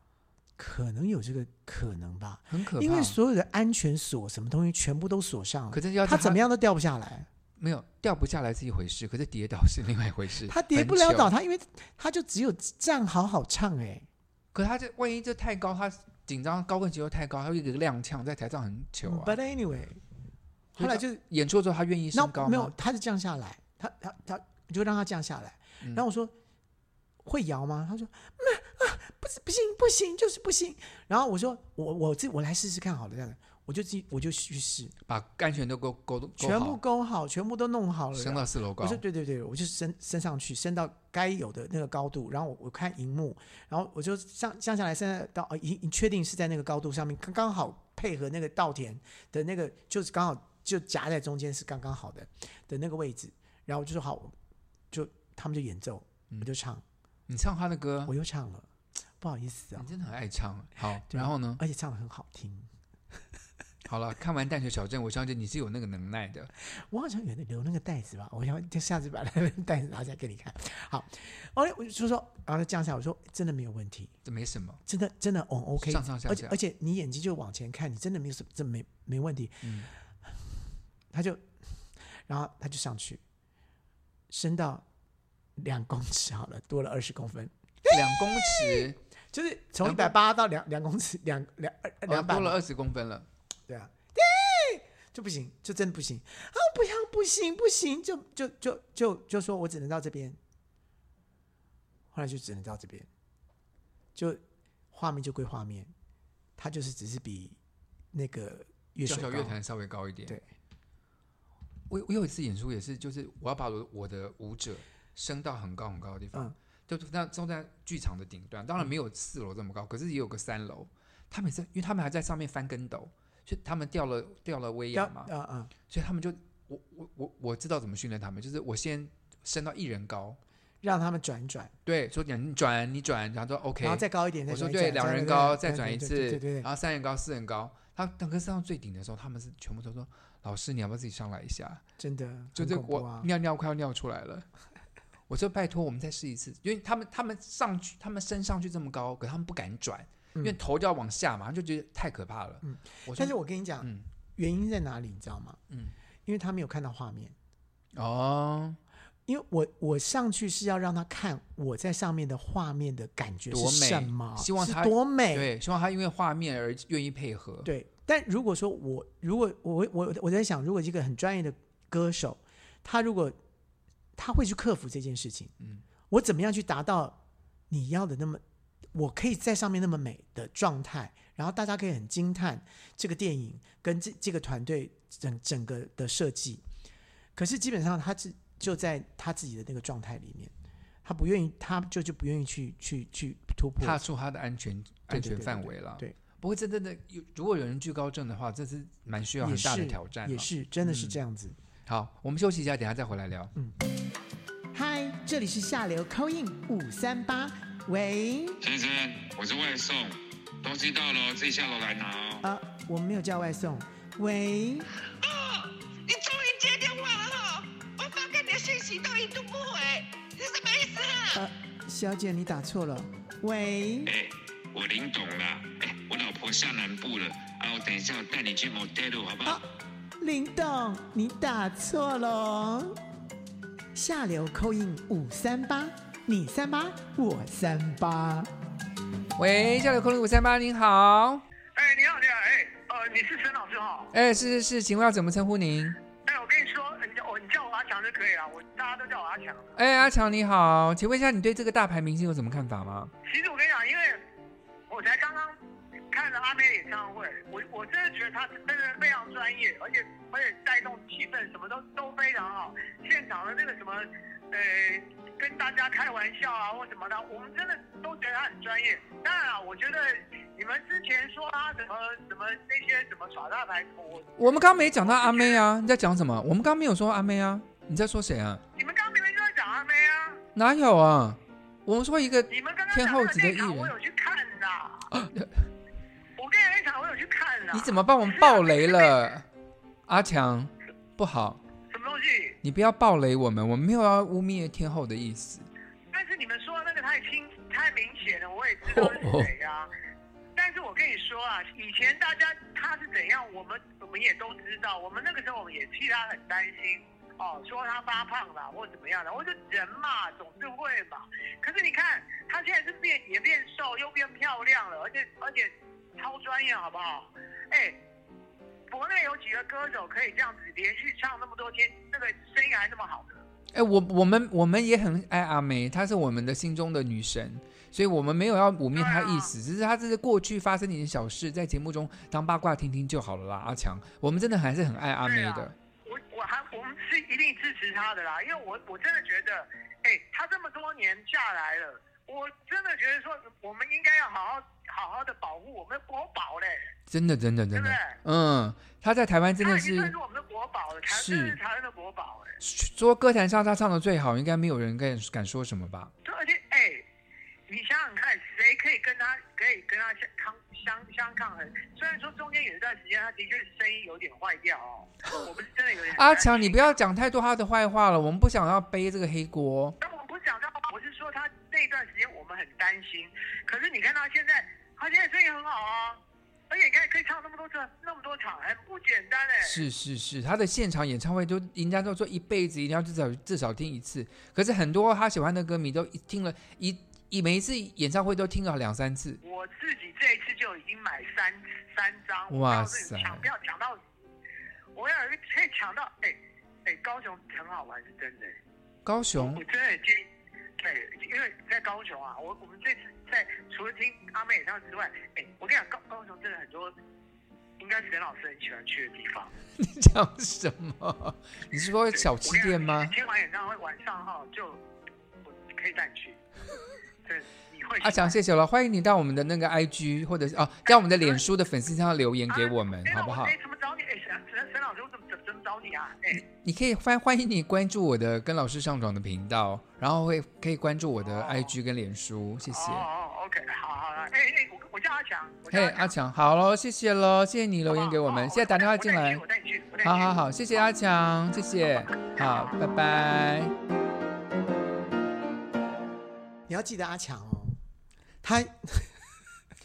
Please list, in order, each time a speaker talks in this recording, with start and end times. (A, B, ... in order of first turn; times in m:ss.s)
0:00.6-0:07.3 A
0:02.5-0:03.2 B
0:05.7-0:06.4 B
0:07.6-0:11.3 B
0:10.5-0:14.1 A
0:14.5-0:19.4 B
0:19.0-0:20.0 A
0:20.8-0:21.2 A
0:20.8-0:22.7 B
0:22.1-0:26.3 A
0:27.2-0:34.9 A
0:35.1-0:36.8 B
0:36.4-0:54.3 A
0:38.1-0:39.0 B
0:54.9-0:56.8 A
0:57.3-0:58.1 B
0:58.0-0:58.7 A
0:59.2-0:59.9 A
0:59.8-1:01.6 B
1:01.1-1:02.7 A
1:03.8-1:06.5 B
1:06.6-1:14.1 A
1:14.2-1:14.8 B
1:14.8-1:19.8 A
1:15.8-1:16.6 B
1:19.6-1:19.9 B
1:21.1-1:21.4 A
1:22.1-1:23.2 A
1:24.3-1:24.8 A
1:25.6-1:32.6 A
1:27.8-1:29.0 B
1:29.8-1:30.1 B
1:32.1-1:33.3 B
1:33.7-1:40.4 A
1:42.1-1:43.1 A
1:44.1-1:44.4 A
1:44.9-1:45.9 A
1:46.6-1:47.6 A
1:48.1-1:49.6 A
1:49.0-1:50.4 B
1:51.9-2:05.3 B
2:04.9-2:05.7 A
2:05.9-2:10.4 B
2:10.8-2:11.7 A
2:11.8-2:21.8 B
2:13.8-2:16.7 A
2:22.0-2:23.3 A
2:22.5-2:24.4 B
2:25.3-2:34.0 B
2:32.6-2:35.6 A
2:35.7-2:35.9 B
2:36.2-2:37.3 A
2:37.9-2:38.8 B
2:39.3-2:45.5 A
2:43.5-2:47.7 B
2:47.6-2:53.4 A
2:54.2-2:55.5 A
2:56.1-2:57.2 A
2:57.7-2:58.4 A
2:58.9-3:06.6 A
3:07.4-3:10.5 A
3:11.0-3:14.0 A
3:13.8-3:21.2 B
3:15.1-3:16.1 A
3:19.4-3:21.6 A
3:21.8-3:23.5 B
3:24.7-3:28.6 A
3:28.6-3:32.4 C
3:32.4-3:34.9 A
3:35.2-3:41.4 D
3:41.3-3:44.1 A
3:44.0-3:49.6 C
3:50.2-3:53.0 A
3:53.9-3:58.5 A
3:59.4-4:01.4 B
4:01.8-4:04.1 E
4:04.1-4:06.0 B
4:06.2-4:09.8 E
4:09.8-4:13.1 B
4:13.2-4:14.2 E
4:14.9-4:15.6 E
4:16.1-4:35.6 E
4:34.4-4:38.6 B
4:38.8-4:40.4 E
4:40.5-4:43.9 B
4:42.5-4:45.1 E
4:45.1-4:45.7 B
4:46.4-4:49.2 E
4:47.7-4:49.5 B
4:50.1-4:51.6 B
4:51.9-4:52.6 E
4:52.6-4:55.7 B
4:56.1-4:59.9 E
4:58.9-4:59.5 B
5:00.6-5:18.0 E
5:18.9-5:23.4 E
5:23.7-5:35.7 B
5:28.9-5:29.5 E
5:35.2-5:46.9 E
5:47.1-5:50.1 B
5:47.7-5:48.2 E
5:49.6-5:52.6 E
5:51.1-5:51.6 B
5:52.6-5:56.1 B
5:56.2-5:57.0 E
5:57.7-6:07.0 E
6:06.1-6:10.0 B
6:10.0-6:19.8 E
6:19.6-6:29.4 B
6:29.4-6:34.0 E
6:32.5-6:33.5 B
6:34.9-6:38.6 E
6:39.0-6:39.6 B
6:39.4-6:40.2 E
6:40.8-6:46.9 E
6:47.8-6:49.5 E
6:49.8-6:53.2 B
6:52.1-6:54.8 E
6:55.6-6:56.4 E
6:57.2-6:58.4 E
6:58.0-7:03.5 B
7:00.9-7:01.4 E
7:02.5-7:06.4 E
7:06.3-7:13.1 B
7:11.2-7:11.7 E
7:12.7-7:16.1 E
7:15.7-7:19.4 B
7:17.9-7:20.8 E
7:20.0-7:23.7 B
7:22.3-7:22.8 E
7:26.7-7:27.8 A
7:28.4-7:29.2 A